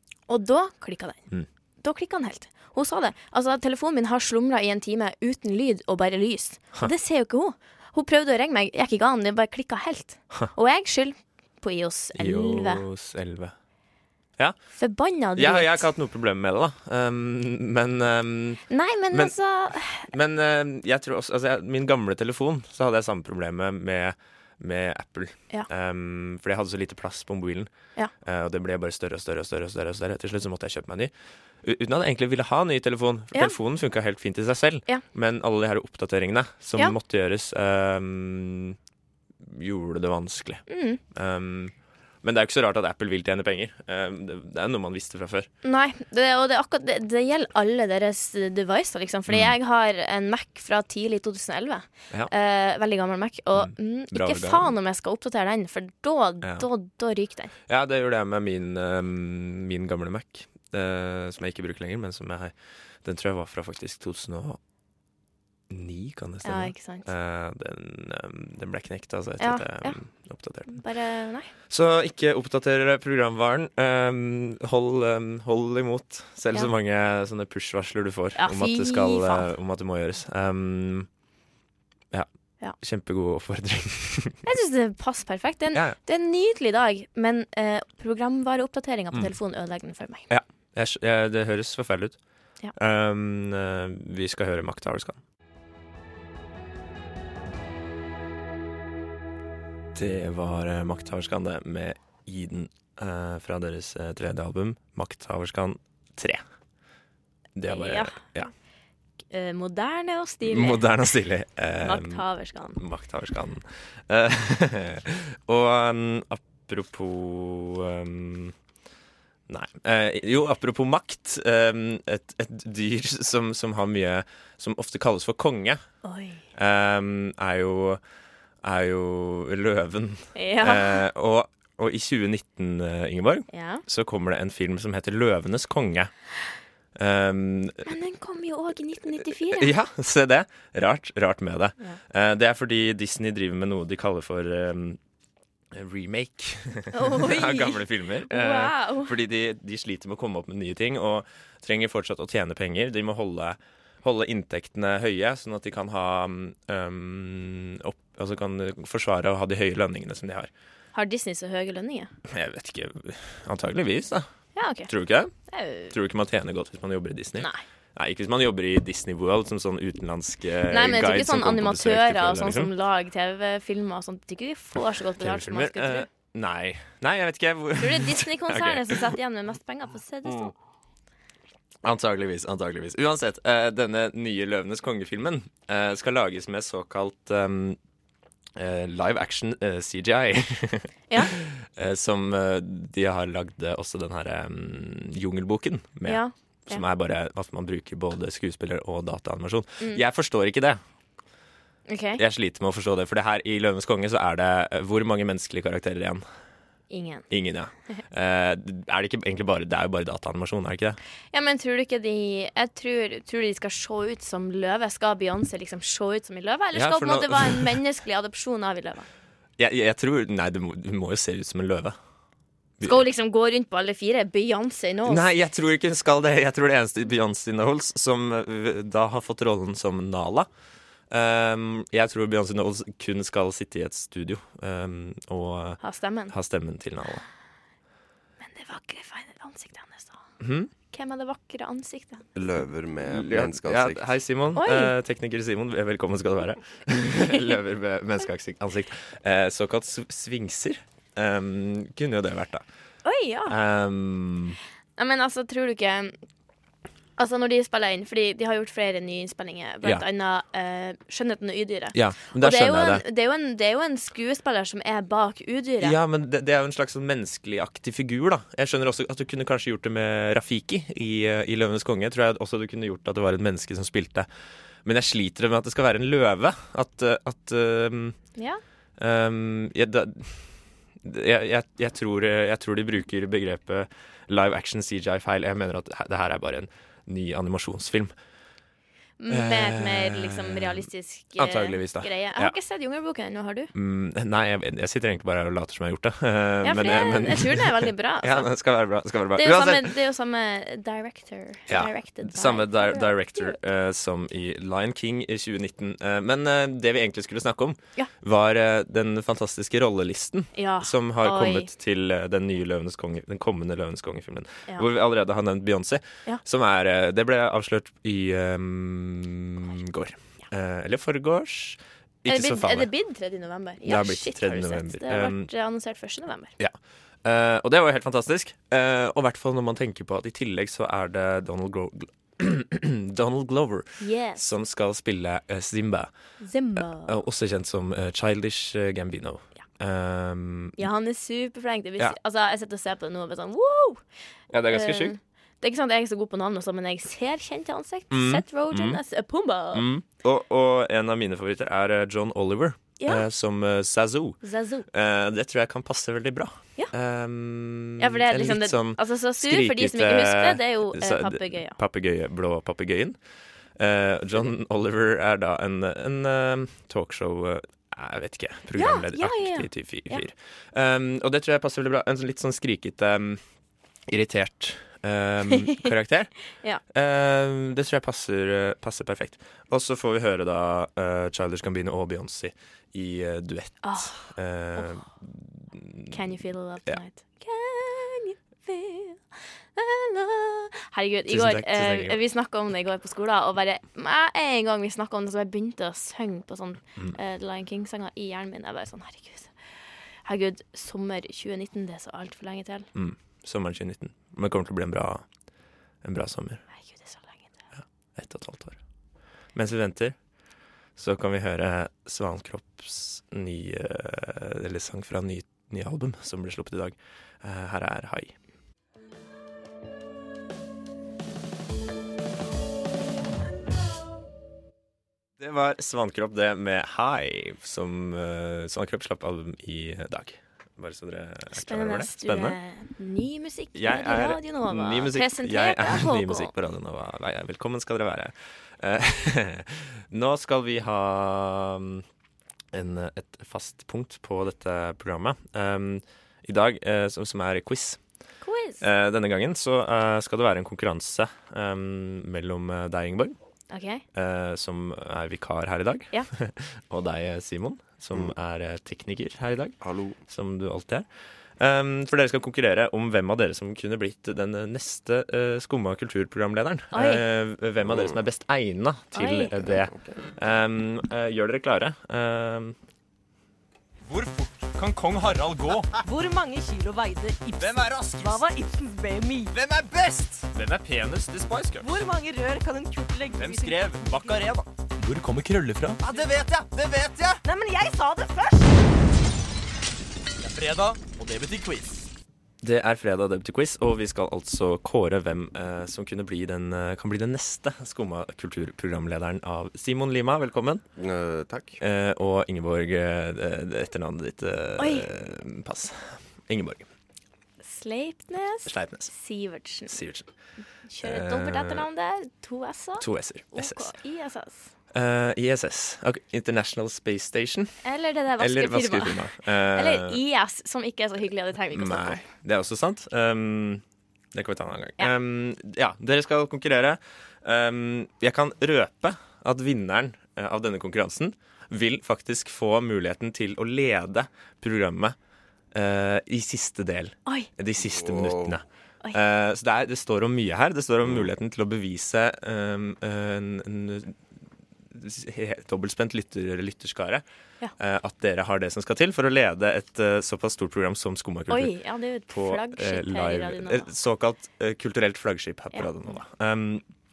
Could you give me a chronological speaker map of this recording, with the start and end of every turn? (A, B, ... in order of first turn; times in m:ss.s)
0:00.2-0:12.8 A
0:12.2-0:38.8 B
0:14.8-0:15.9 A
0:18.7-0:20.1 A
0:39.4-0:45.5 B
0:40.7-0:41.0 A
0:45.6-0:57.5 A
0:49.3-0:49.5 B
0:53.6-0:54.7 B
0:56.4-0:56.7 B
0:57.7-1:04.6 B
1:05.7-1:21.1 B
1:06.4-1:07.1 A
1:09.4-1:11.5 A
1:18.4-1:19.5 A
1:22.1-1:24.4 B
1:24.4-1:30.2 A
1:30.3-1:35.2 B
1:40.0-1:46.4 B
1:47.6-1:48.5 B
1:47.7-1:48.6 A
1:49.3-1:51.1 A
1:50.5-1:58.6 B
1:51.8-1:52.8 A
1:59.5-2:05.8 B
2:06.0-2:06.4 A
2:06.5-2:08.0 B
2:08.6-2:16.3 B
2:10.4-2:11.0 A
2:13.5-2:13.8 A
2:17.0-2:17.8 B
2:17.9-2:19.7 A
2:19.5-2:25.0 B
2:25.7-2:40.5 B
2:26.9-2:29.1 A
2:40.9-2:42.1 A
2:42.3-2:44.3 B
2:44.6-2:44.9 A
2:44.9-2:52.7 B
2:45.5-2:45.9 A
2:50.7-2:56.1 A
2:55.2-2:59.1 B
2:57.8-3:00.5 A
3:01.8-3:07.8 B
3:08.6-3:20.8 B
3:16.0-3:16.8 A
3:21.9-3:22.2 A
3:22.2-3:26.2 B
3:26.9-3:27.3 A
3:27.3-3:31.0 B
3:31.3-3:39.1 A
3:36.7-3:37.8 B
3:39.6-3:42.0 B
3:42.8-3:45.3 A
3:45.1-3:50.5 B
3:51.1-3:57.2 B
3:55.8-3:56.3 A
3:58.4-4:02.3 A
4:00.4-4:00.7 B
4:02.4-4:04.2 C
4:03.1-4:12.7 B
4:04.6-4:04.9 A
4:13.0-4:13.6 A
4:13.5-4:14.6 B
4:15.0-4:16.2 A
4:17.2-4:26.0 A
4:21.9-4:23.0 B
4:25.8-4:34.3 B
4:34.8-4:38.4 B
4:39.0-4:48.1 B
4:49.2-4:53.7 A
4:49.3-4:52.6 B
4:53.7-4:59.9 B
4:56.6-4:58.5 A
4:59.4-5:03.6 A
5:01.7-5:22.9 B
5:10.6-5:11.7 A
5:22.3-5:26.5 A
5:23.9-5:25.5 B
5:26.6-5:40.9 B
5:34.0-5:34.4 A
5:36.4-5:37.2 A
5:40.8-5:49.8 A
5:44.5-5:45.2 B
5:48.1-5:49.0 B
5:49.7-6:03.2 B
5:53.0-5:53.2 A
5:54.4-5:54.9 A
5:58.0-6:01.8 A
6:03.7-6:13.4 B
6:08.8-6:10.3 A
6:14.1-6:26.2 B
6:16.6-6:16.8 A
6:23.8-6:24.2 A
6:26.1-6:42.9 A
6:31.3-6:32.2 B
6:43.0-6:45.3 B
6:46.0-6:46.7 B
6:46.7-6:47.6 A
6:47.8-6:48.8 B
6:49.5-6:50.4 B
6:51.0-6:58.4 B
7:05.4-7:12.6 B
7:11.6-7:16.5 A
7:13.8-7:22.0 B
7:22.7-7:28.0 B
7:28.4-7:28.8 A
7:28.8-7:33.4 B
7:33.7-7:34.0 A
7:34.1-7:52.8 B
7:39.8-7:40.2 C
7:46.9-7:47.2 A
7:47.8-7:48.2 C
7:49.1-7:49.5 A
7:49.6-7:50.2 C
7:54.1-7:55.9 D
7:56.0-7:59.5 E
7:57.6-7:58.4 D
7:59.5-8:00.5 D
8:00.5-8:01.9 B
8:01.8-8:04.4 E
8:03.4-8:07.4 D
8:06.0-8:06.4 E
8:07.4-8:08.8 E
8:10.4-8:12.1 D
8:12.6-8:20.8 B
8:21.0-8:21.8 C
8:21.8-8:26.9 B
8:24.8-8:25.1 A
8:27.6-8:30.0 A
8:28.7-8:29.1 B
8:29.9-8:30.3 B
8:30.9-8:34.7 A
8:31.0-8:31.9 B
8:33.0-8:33.9 B
8:34.9-8:37.8 B
8:37.8-8:42.2 A
8:38.4-8:40.2 B
8:41.7-8:43.8 B
8:44.3-8:55.2 B
8:55.7-9:04.2 B
8:57.8-8:58.6 C
9:04.9-9:07.2 B
9:07.8-9:11.8 B
9:11.5-9:13.9 A
9:12.3-9:16.8 B
9:15.7-9:16.2 A